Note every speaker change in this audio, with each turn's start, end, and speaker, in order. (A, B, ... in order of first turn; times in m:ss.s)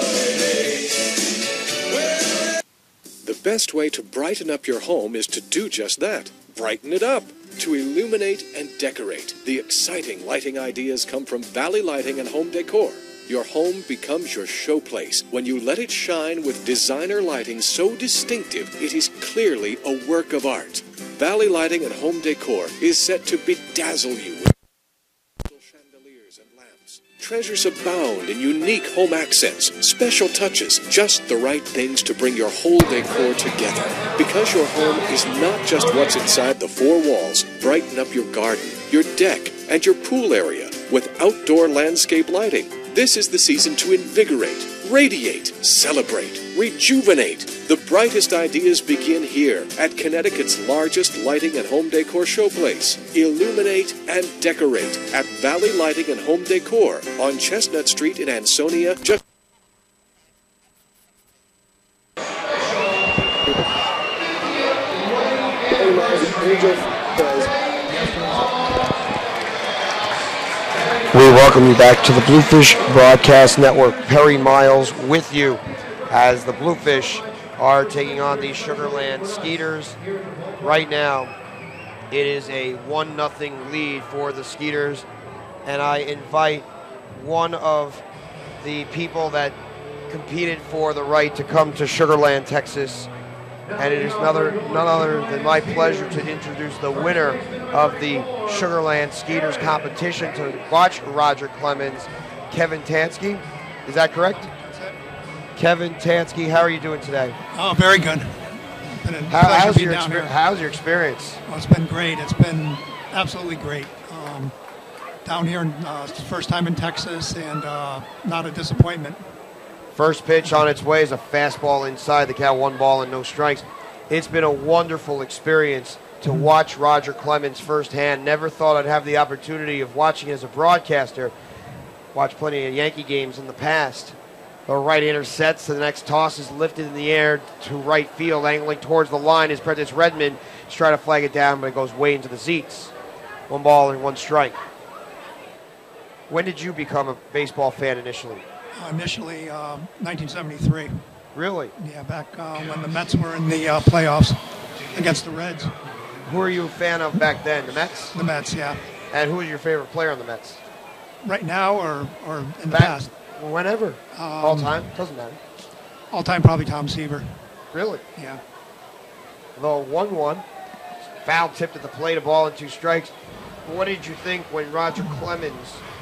0:03.2-0:24.5 A
0:25.4-0:59.2 A
1:05.5-1:09.0 B
1:11.1-1:20.0 B
1:20.6-1:21.3 B
1:22.1-1:25.0 B
1:25.6-1:28.0 B
1:28.6-1:29.6 B
1:30.1-1:33.1 B
1:33.8-1:44.5 B
1:44.4-1:45.0 C
1:45.6-1:47.4 B
1:47.5-1:50.4 C
1:49.3-1:51.4 B
1:51.5-1:54.6 C
1:55.2-1:59.2 C
2:00.0-2:11.3 B
2:12.1-2:14.2 B
2:14.7-2:22.9 B
2:23.5-2:24.6 B
2:26.3-2:28.4 B
2:28.8-2:31.0 C
2:31.4-2:31.7 B
2:31.8-2:35.7 C
2:36.2-2:38.1 B
2:38.1-2:38.8 C
2:39.1-2:40.6 B
2:41.2-2:43.1 C
2:42.7-2:45.4 B
2:44.1-2:44.9 C
2:46.1-2:47.4 C
2:47.7-2:48.0 B
2:48.2-2:48.4 C
2:49.6-2:50.4 B
2:51.2-2:53.1 B
2:53.7-2:55.8 B